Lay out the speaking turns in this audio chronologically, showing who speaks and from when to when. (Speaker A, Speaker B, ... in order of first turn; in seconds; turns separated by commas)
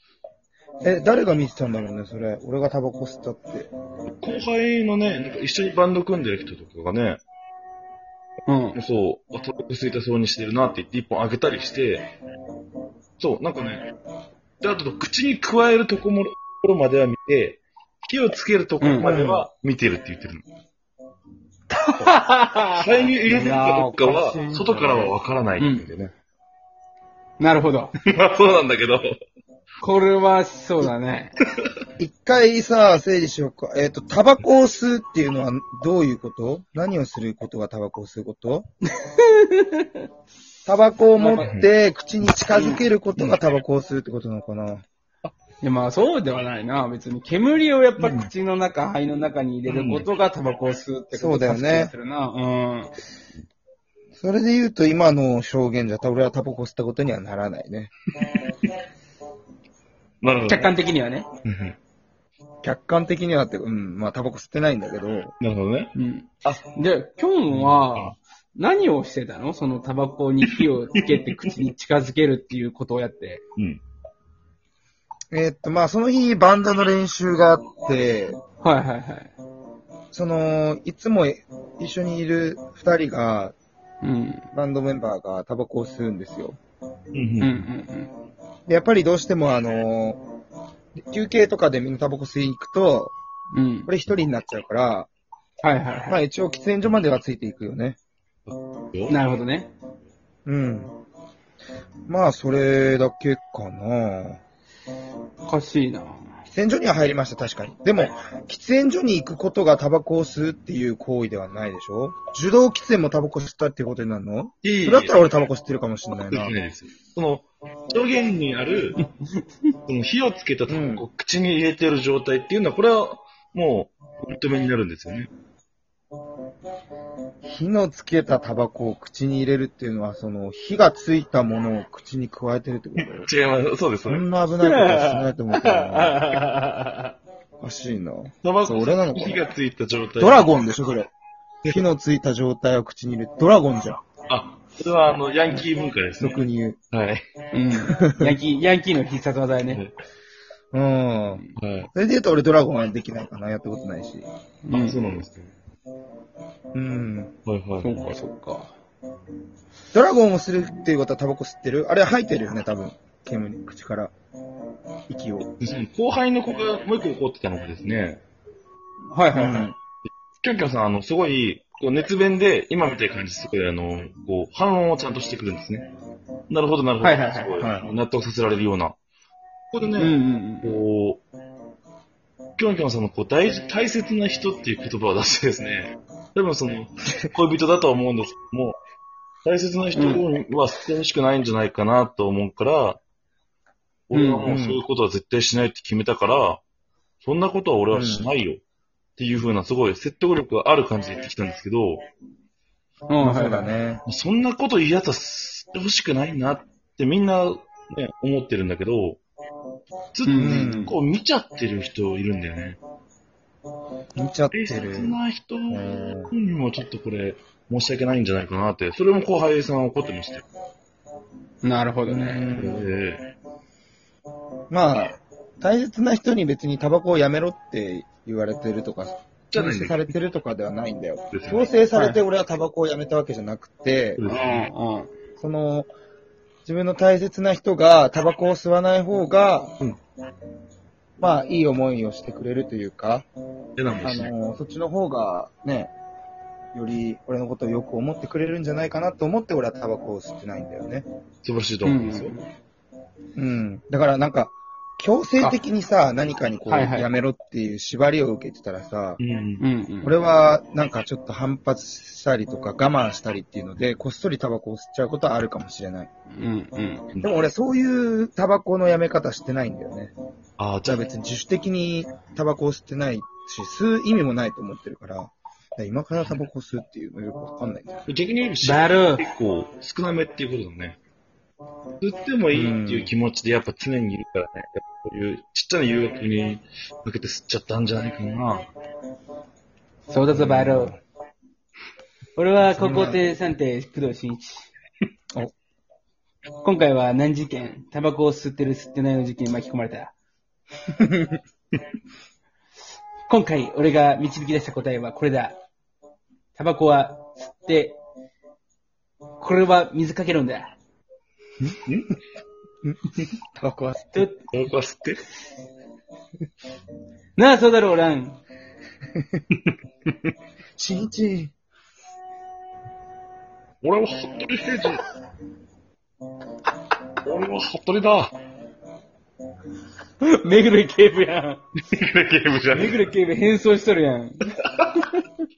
Speaker A: 0.8-3.7, Speaker B: 4.2-7.2, Speaker C: 8.5-8.8, Speaker B: 8.8-12.1, Speaker B: 13.2-13.9, Speaker B: 14.6-20.4, Speaker C: 18.8-19.1, Speaker A: 19.0-19.5, Speaker C: 21.9-25.0, Speaker B: 22.7-26.1, Speaker A: 24.4-25.0, Speaker C: 25.6-25.9, Speaker C: 27.4-27.9, Speaker B: 28.0-29.1, Speaker C: 29.8-31.4, Speaker A: 32.0-38.7, Speaker C: 39.0-40.0, Speaker A: 40.7-44.9, Speaker C: 41.2-41.5, Speaker B: 41.4-41.7, Speaker C: 42.5-42.8, Speaker C: 45.6-52.9, Speaker B: 48.0-48.3, Speaker B: 49.7-50.0, Speaker A: 51.1-51.9, Speaker A: 54.2-57.9, Speaker B: 60.2-60.7, Speaker C: 60.5-61.3, Speaker B: 61.5-61.8, Speaker A: 62.6-65.3, Speaker B: 65.4-65.9, Speaker C: 66.0-73.4, Speaker B: 67.5-68.2, Speaker B: 70.5-71.5, Speaker B: 73.6-73.8, Speaker A: 75.3-78.4, Speaker C: 78.6-79.3, Speaker A: 80.1-83.5, Speaker C: 84.0-84.5, Speaker A: 84.5-86.6, Speaker B: 87.1-87.7, Speaker C: 87.4-88.1, Speaker A: 88.7-90.2, Speaker A: 91.0-93.2, Speaker C: 93.5-93.9, Speaker A: 93.9-95.1, Speaker C: 95.6-96.2, Speaker A: 96.1-98.0, Speaker B: 98.9-99.2, Speaker C: 99.1-99.7, Speaker A: 100.5-100.9, Speaker A: 102.1-104.4, Speaker C: 105.4-106.2, Speaker A: 106.5-116.5, Speaker B: 114.6-115.2, Speaker B: 116.1-119.0, Speaker B: 119.9-125.3, Speaker A: 120.7-121.1, Speaker A: 127.4-133.3, Speaker B: 133.0-134.3, Speaker A: 134.1-136.3, Speaker C: 134.6-137.1, Speaker A: 137.6-139.4, Speaker B: 138.4-140.5, Speaker A: 140.2-141.1, Speaker A: 141.7-144.0, Speaker B: 144.3-146.4, Speaker A: 146.2-146.8, Speaker B: 146.9-147.2, Speaker C: 147.5-149.8, Speaker A: 147.8-148.3, Speaker B: 149.7-149.9, Speaker A: 150.7-154.3, Speaker B: 151.6-151.9, Speaker C: 154.7-155.0, Speaker B: 154.7-155.5, Speaker A: 156.7-157.3, Speaker B: 157.5-157.9, Speaker C: 157.8-158.7, Speaker A: 159.9-164.1, Speaker A: 165.1-165.5, Speaker B: 165.6-168.2, Speaker C: 169.1-169.7, Speaker A: 169.3-169.8, Speaker B: 170.4-175.9, Speaker B: 176.5-179.0, Speaker C: 177.0-177.6, Speaker A: 177.6-177.9, Speaker B: 179.7-181.2, Speaker C: 180.0-180.8, Speaker B: 182.6-188.8, Speaker B: 189.4-193.0, Speaker C: 189.9-190.2, Speaker B: 194.1-196.6, Speaker C: 194.1-194.5, Speaker A: 194.4-194.8, Speaker B: 197.2-198.6, Speaker A: 197.9-198.3, Speaker B: 199.2-202.1, Speaker C: 203.1-203.7, Speaker A: 203.2-204.0, Speaker B: 204.1-209.2, Speaker B: 210.1-212.8, Speaker C: 210.2-210.9, Speaker A: 210.4-211.0, Speaker A: 214.2-215.2, Speaker B: 214.5-220.4, Speaker A: 215.7-216.3, Speaker C: 221.6-222.5, Speaker A: 222.1-222.9, Speaker B: 222.6-223.3, Speaker A: 224.7-234.2, Speaker B: 229.5-230.1, Speaker B: 231.3-231.7, Speaker C: 231.9-232.2, Speaker B: 234.2-234.7, Speaker C: 234.3-235.1, Speaker A: 235.4-235.9, Speaker A: 236.7-239.8, Speaker A: 241.2-243.3, Speaker B: 243.8-244.3, Speaker A: 244.0-245.9, Speaker A: 246.7-251.1, Speaker B: 251.4-252.4, Speaker C: 251.8-252.5, Speaker A: 253.4-259.2, Speaker C: 256.7-257.1, Speaker B: 259.2-259.6, Speaker C: 259.6-260.1, Speaker A: 260.0-266.1, Speaker C: 266.3-267.1, Speaker A: 267.2-270.1, Speaker B: 270.6-271.1, Speaker A: 270.9-278.1, Speaker B: 278.1-281.0, Speaker C: 278.6-279.3, Speaker B: 282.0-288.7, Speaker A: 282.5-283.1, Speaker C: 290.1-291.0, Speaker A: 290.3-291.0, Speaker C: 292.4-294.7, Speaker A: 292.7-293.2, Speaker C: 296.6-300.1, Speaker A: 301.0-301.4, Speaker C: 303.3-305.6, Speaker C: 306.6-308.0, Speaker C: 309.4-310.7, Speaker B: 311.6-312.1, Speaker A: 312.9-314.2, Speaker C: 314.1-314.4, Speaker B: 314.5-315.2, Speaker C: 317.4-318.4, Speaker B: 319.6-320.1, Speaker A: 320.8-321.5, Speaker B: 323.8-325.0, Speaker B: 327.2-328.4, Speaker C: 330.2-331.6, Speaker B: 331.9-333.0, Speaker C: 332.7-334.4